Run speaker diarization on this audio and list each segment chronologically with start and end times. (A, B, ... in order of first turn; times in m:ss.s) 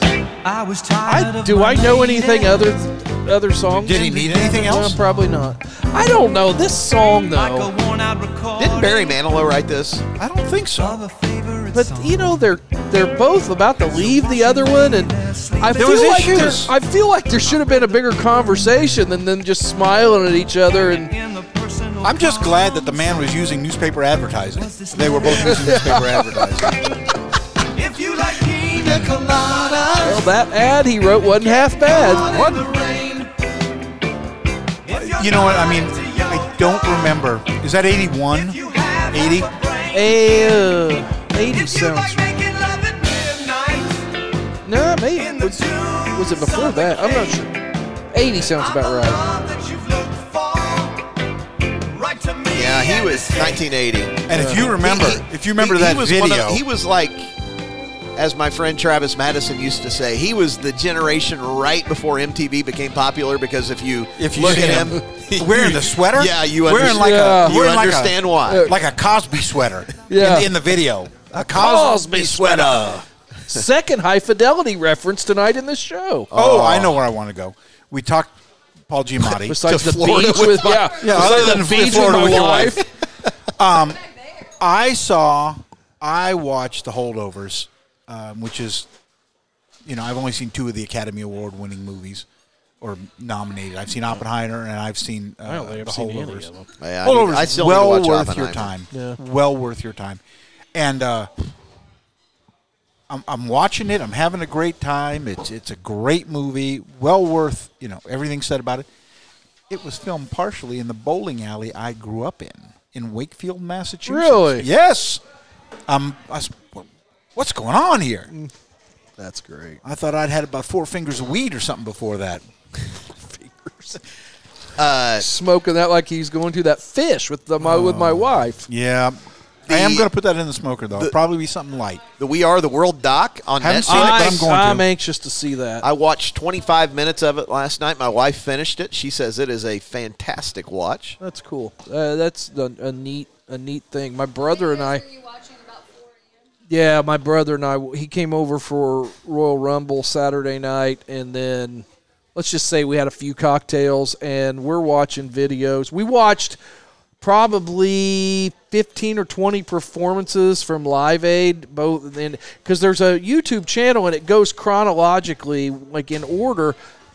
0:00.4-0:02.7 A
0:01.0-0:07.7 B
0:03.7-0:05.0 C
0:06.9-0:09.2 A
0:08.6-0:10.0 D
0:10.2-0:11.0 C
0:10.7-0:12.4 A
0:11.7-0:21.1 B
0:13.4-0:16.4 A
0:15.7-0:16.7 C
0:20.9-0:23.0 A
0:22.0-0:26.8 C
0:24.5-0:26.0 A
0:25.3-0:26.9 B
0:27.7-0:30.4 A
0:30.0-0:32.7 B
0:31.4-0:33.4 A
0:34.8-0:37.2 A
0:34.9-0:39.5 C
0:38.3-0:44.2 A
0:39.9-0:42.3 B
0:44.6-0:47.6 B
0:45.1-0:47.5 A
0:48.1-0:49.2 B
0:48.5-0:51.1 A
0:51.8-0:53.7 A
0:52.5-0:57.3 D
0:54.2-0:56.6 C
0:54.3-0:54.7 B
0:58.2-1:08.7 D
1:04.2-1:13.0 C
1:04.5-1:05.0 B
1:06.8-1:07.5 B
1:08.5-1:08.8 B
1:10.1-1:10.5 B
1:11.4-1:12.9 B
1:13.5-1:16.3 B
1:16.3-1:17.0 D
1:16.3-1:18.4 C
1:18.9-1:19.7 C
1:19.4-1:22.8 B
1:19.5-1:22.8 D
1:21.0-1:22.8 C
1:23.6-1:24.0 C
1:24.6-1:28.9 C
1:29.8-1:32.2 C
1:32.8-1:36.5 C
1:35.4-1:36.7 B
1:36.8-1:38.7 D
1:37.0-1:40.2 C
1:38.9-1:39.2 B
1:40.7-1:41.3 C
1:43.1-1:48.9 C
1:49.7-1:55.2 C
1:54.0-1:54.7 B
1:55.9-1:58.3 C
1:59.2-1:59.8 B
1:59.8-2:02.4 C
2:03.2-2:04.0 B
2:04.8-2:05.2 D
2:05.2-2:08.7 B
2:07.6-2:12.0 C
2:09.7-2:10.1 D
2:12.2-2:14.4 D
2:13.6-2:14.8 C
2:13.9-2:15.8 B
2:15.8-2:21.2 D
2:21.2-2:25.0 B
2:24.4-2:26.4 E
2:26.7-2:36.6 B
2:37.2-2:46.8 B